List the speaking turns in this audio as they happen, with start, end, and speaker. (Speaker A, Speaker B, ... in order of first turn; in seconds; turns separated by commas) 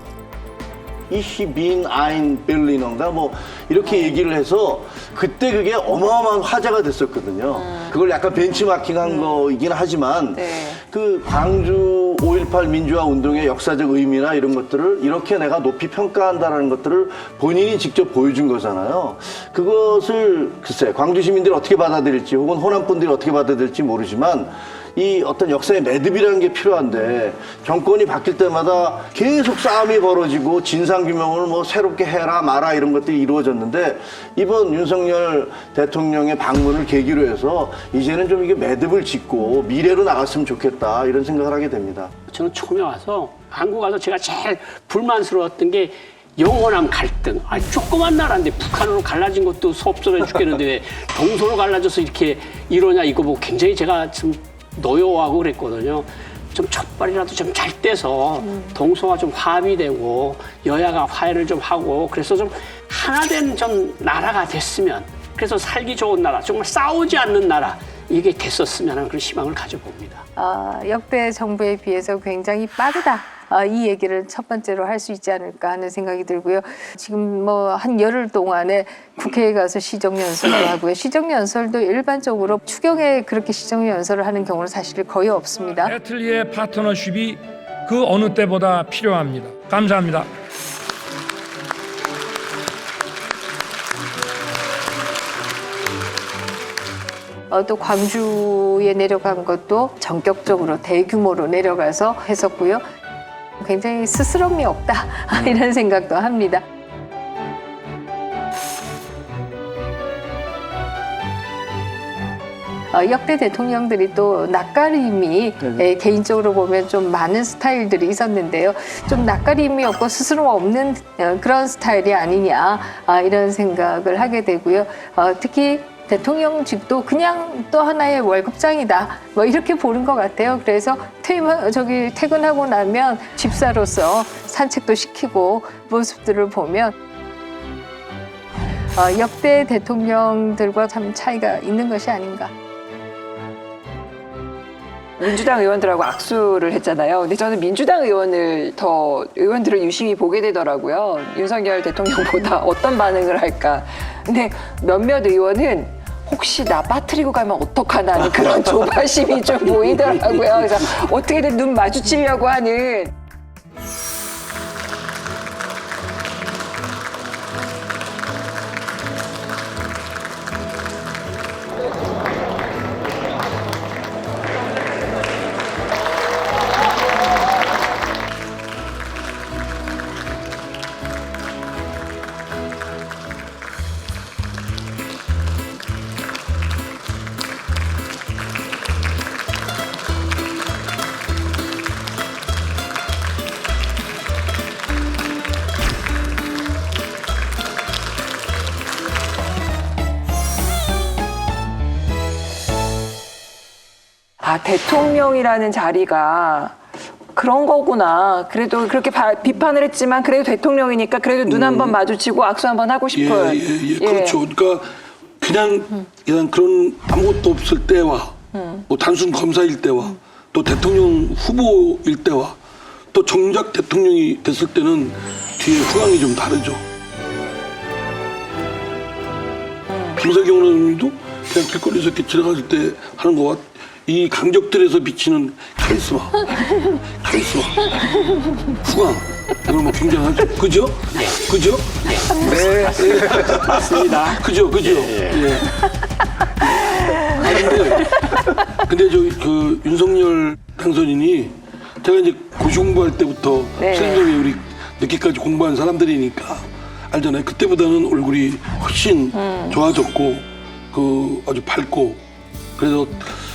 Speaker A: 1.1-42.1, Speaker B: 10.3-10.8, Speaker C: 42.3-70.2, Speaker D: 70.4-85.9, Speaker E: 85.8-90.3, Speaker D: 97.5-102.8, Speaker D: 103.6-106.7, Speaker D: 112.9-136.9, Speaker D: 138.9-142.5, Speaker B: 145.2-163.1, Speaker B: 204.4-206.8, Speaker B: 207.3-214.5, Speaker F: 211.5-212.0, Speaker F: 213.1-222.6, Speaker B: 218.5-218.8, Speaker F: 223.1-226.8, Speaker F: 230.1-238.3, Speaker F: 238.8-245.8, Speaker C: 241.1-241.5, Speaker C: 242.0-245.6, Speaker B: 242.4-242.9, Speaker F: 246.8-262.2, Speaker B: 253.8-254.4, Speaker B: 259.3-259.8, Speaker F: 262.8-263.3